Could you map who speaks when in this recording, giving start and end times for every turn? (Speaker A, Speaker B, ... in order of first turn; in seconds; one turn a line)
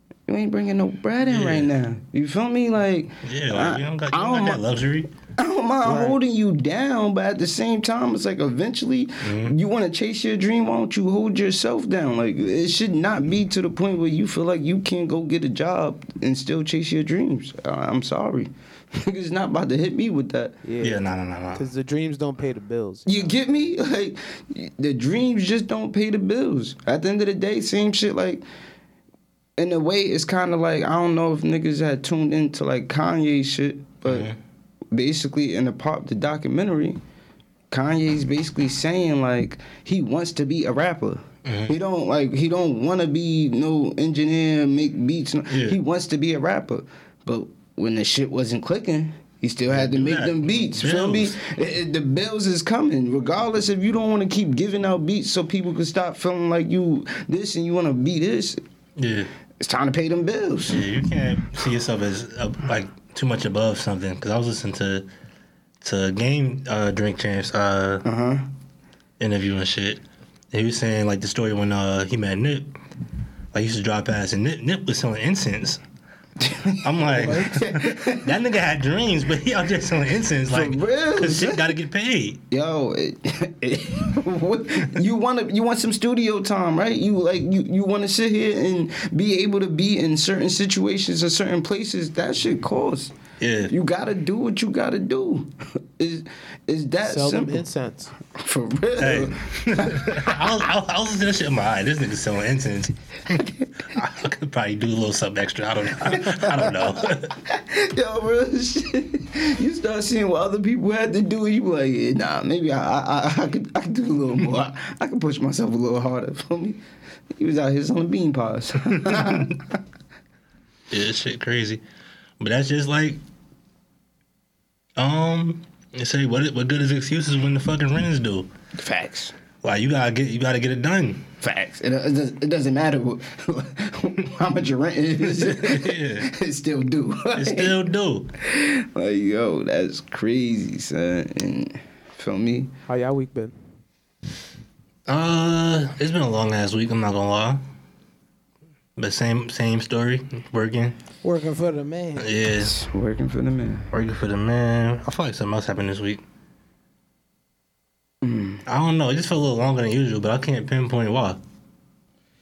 Speaker A: 0.3-4.6
Speaker B: 1.2-1.7
Speaker B: 3.2-5.1
Speaker A: 5.4-20.6
Speaker C: 5.8-6.2
Speaker B: 9.2-9.6
Speaker C: 20.6-21.0
Speaker B: 20.8-21.6
Speaker C: 21.5-23.4
Speaker A: 23.1-28.4
Speaker A: 29.6-34.3
Speaker B: 34.0-34.3
Speaker A: 34.9-37.0
Speaker A: 37.7-58.6
Speaker B: 41.4-41.7
Speaker B: 45.5-45.8
Speaker B: 49.7-51.4
Speaker B: 59.0-59.3
Speaker A: 59.6-60.8
Speaker B: 60.7-65.1
Speaker B: 65.8-68.0
Speaker A: 68.0-68.5
Speaker B: 69.2-72.7
Speaker B: 73.5-75.8
Speaker A: 76.4-78.3
Speaker B: 76.8-82.4
Speaker C: 77.2-77.6
Speaker A: 80.5-81.6
Speaker A: 82.5-93.1
Speaker B: 93.4-93.7
Speaker A: 93.7-97.6
Speaker C: 97.0-98.1
Speaker A: 98.3-100.4
Speaker B: 99.0-107.4
Speaker A: 106.1-106.4
Speaker A: 107.4-116.8
Speaker A: 117.3-119.8
Speaker B: 120.9-121.8
Speaker B: 122.4-123.2
Speaker B: 125.0-128.5
Speaker A: 128.8-129.3
Speaker B: 129.6-131.2
Speaker A: 131.4-137.7
Speaker B: 135.2-136.3
Speaker B: 137.3-138.3
Speaker A: 138.4-142.7
Speaker C: 142.9-143.5
Speaker B: 145.1-147.6
Speaker B: 149.0-150.9
Speaker C: 151.2-152.3
Speaker B: 152.2-152.7
Speaker A: 152.6-153.9
Speaker B: 153.9-156.2
Speaker A: 158.2-158.6
Speaker B: 158.7-161.4